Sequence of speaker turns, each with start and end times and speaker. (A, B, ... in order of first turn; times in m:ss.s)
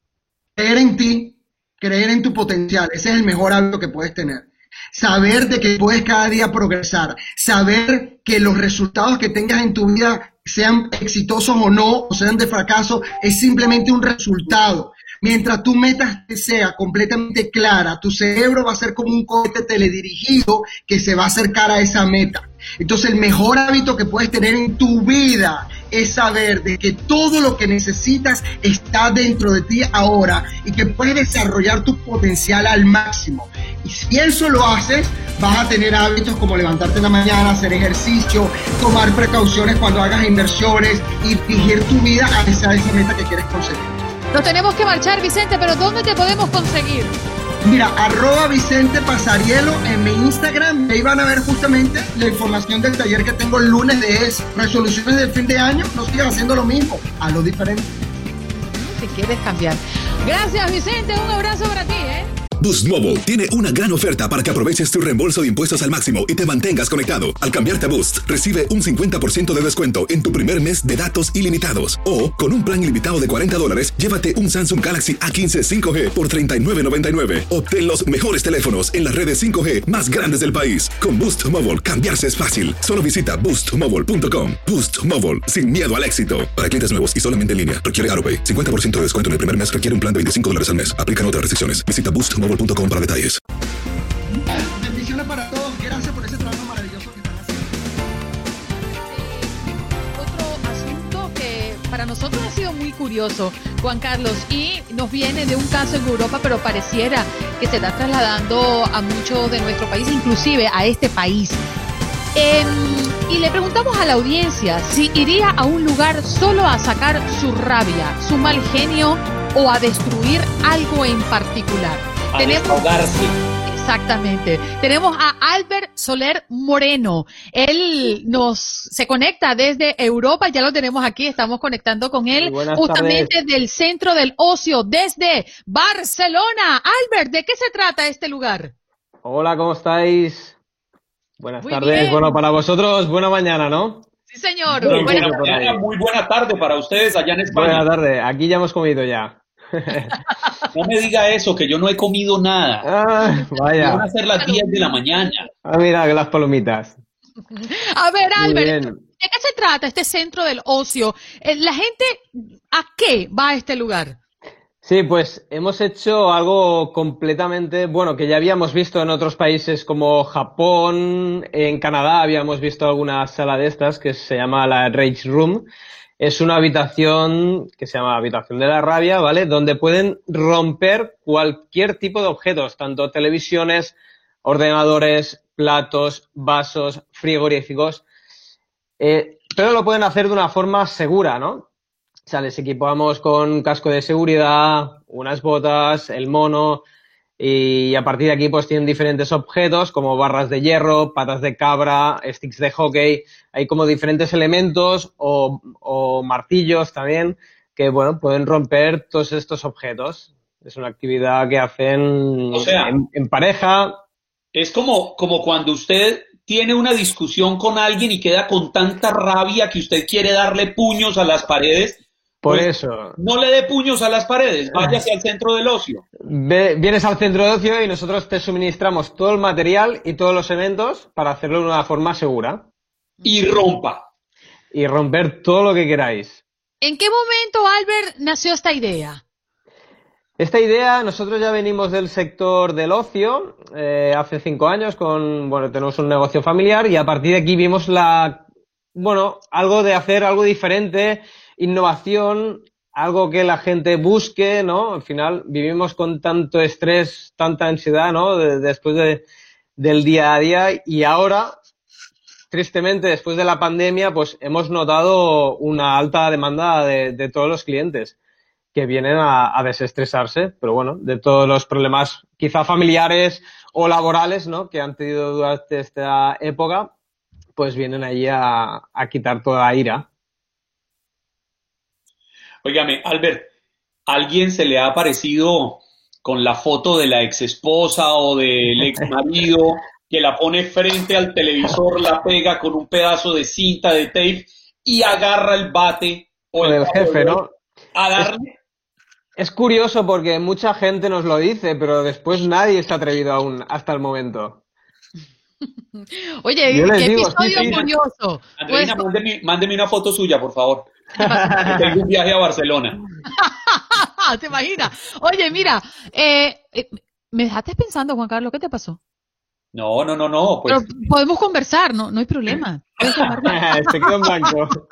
0:00.6-0:44.0 A
0:44.3-0:47.2 B
0:47.6-0:57.9 A
0:58.5-1:02.3 B
1:02.6-1:33.4 C
1:34.8-1:37.7 A
1:38.6-1:51.6 B
1:52.3-2:02.8 B
2:02.3-2:03.4 D
2:03.7-2:18.7 B
2:12.3-2:13.3 E
2:19.2-2:20.6 E
2:21.4-2:24.1 E
2:21.6-2:22.3 B
2:24.3-2:25.4 B
2:24.8-2:25.8 E
2:24.8-2:27.8 D
2:27.5-2:30.1 E
2:30.7-2:32.8 D
2:32.8-2:34.0 E
2:33.8-2:35.5 D
2:35.6-2:37.0 E
2:37.5-2:44.2 B
2:38.4-2:39.0 E
2:44.8-2:55.6 E
2:56.2-3:08.0 E
3:09.0-3:11.7 E
3:12.3-3:16.8 E
3:17.4-3:34.0 E
3:32.5-3:32.9 D
3:34.5-3:46.0 D
3:42.4-3:43.2 E
3:46.2-3:52.6 E
3:53.2-3:54.0 D
3:54.7-3:56.4 E
3:56.8-3:59.2 B
4:00.4-4:08.4 E
4:08.9-4:19.2 E
4:19.8-4:21.6 E
4:22.5-4:28.2 E
4:28.7-4:36.9 E
4:37.6-4:40.1 E
4:42.6-4:43.5 D
4:44.1-4:57.4 D
4:56.6-4:57.5 E
4:57.9-4:58.5 D
4:59.4-5:04.6 E
5:06.0-5:09.0 B
5:06.7-5:07.8 E
5:07.5-5:07.9 D
5:08.6-5:10.9 D
5:11.2-5:11.8 B
5:11.2-5:11.8 E
5:11.6-5:13.0 D
5:13.4-5:19.0 B
5:19.7-5:20.9 D
5:20.7-5:23.6 B
5:23.4-5:24.8 E